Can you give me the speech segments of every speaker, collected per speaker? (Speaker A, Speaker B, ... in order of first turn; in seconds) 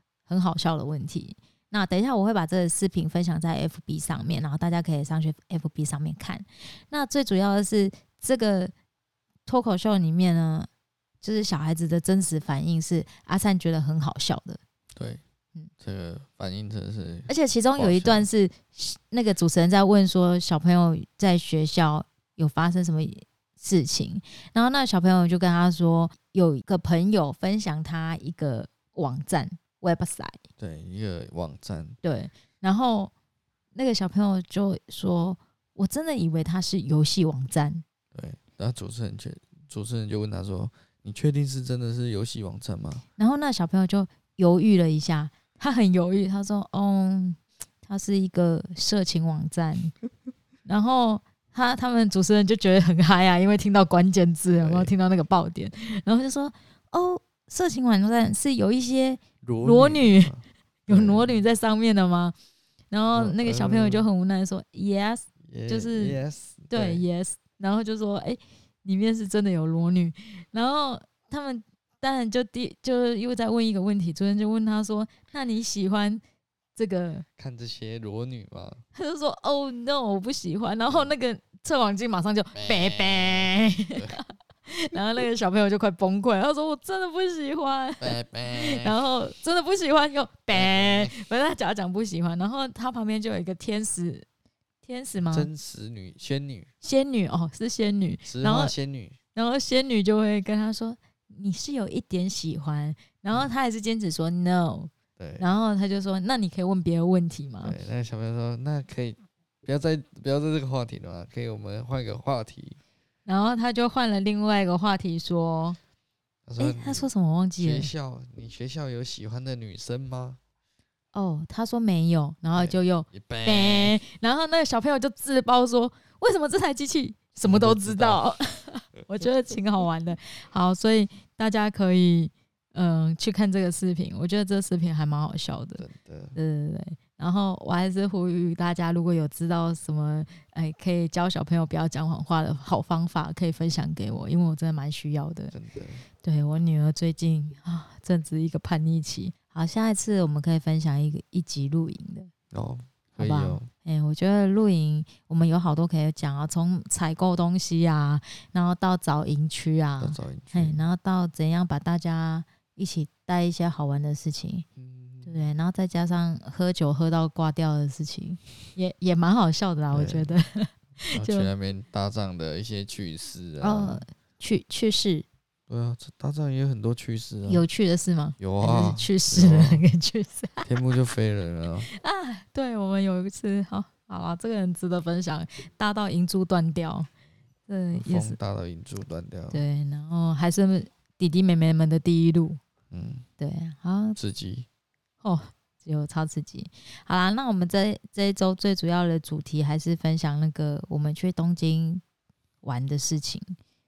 Speaker A: 0.3-8.7, 9.5-10.7, 11.2-14.6, 17.3-30.4, 32.0-33.1, 33.8-37.8, 43.2-49.9, 50.6-60.3, 60.9-62.4, 62.9-66.2, 66.7-76.2, 76.8-77.2, 79.0-94.3, 94.8-95.5, 96.8-98.7, 99.3-107.8, 113.3-115.8, 116.6-117.9, 121.1-135.8, 136.4-145.5, 146.2-152.3, 153.2-164.7, 165.2-171.5, 173.6-175.3, 177.5-180.7, 181.9-187.1, 187.7-188.4, 189.5-192.6, 193.4-194.2, 195.2-202.0, 202.6-203.6
Speaker B: 14.9-15.2, 15.8-18.3, 30.6-32.0, 38.1-43.0, 54.5-54.9, 59.4-61.3, 63.1-64.1, 65.5-67.0, 77.4-78.8, 80.9-81.1, 82.5-84.2, 88.0-89.0, 90.5-91.1, 95.2-96.7, 98.3-99.2, 105.2-105.5, 107.6-112.8, 116.5-120.4, 122.5-124.0, 127.4-128.2, 129.0-129.3, 135.8-136.4, 145.5-146.1, 152.5-153.7, 160.0-160.8, 164.8-165.4, 169.9-170.4, 171.1-174.0, 175.7-177.6, 178.4-179.8, 180.6-181.9, 187.9-189.6, 192.9-193.3, 194.2-194.7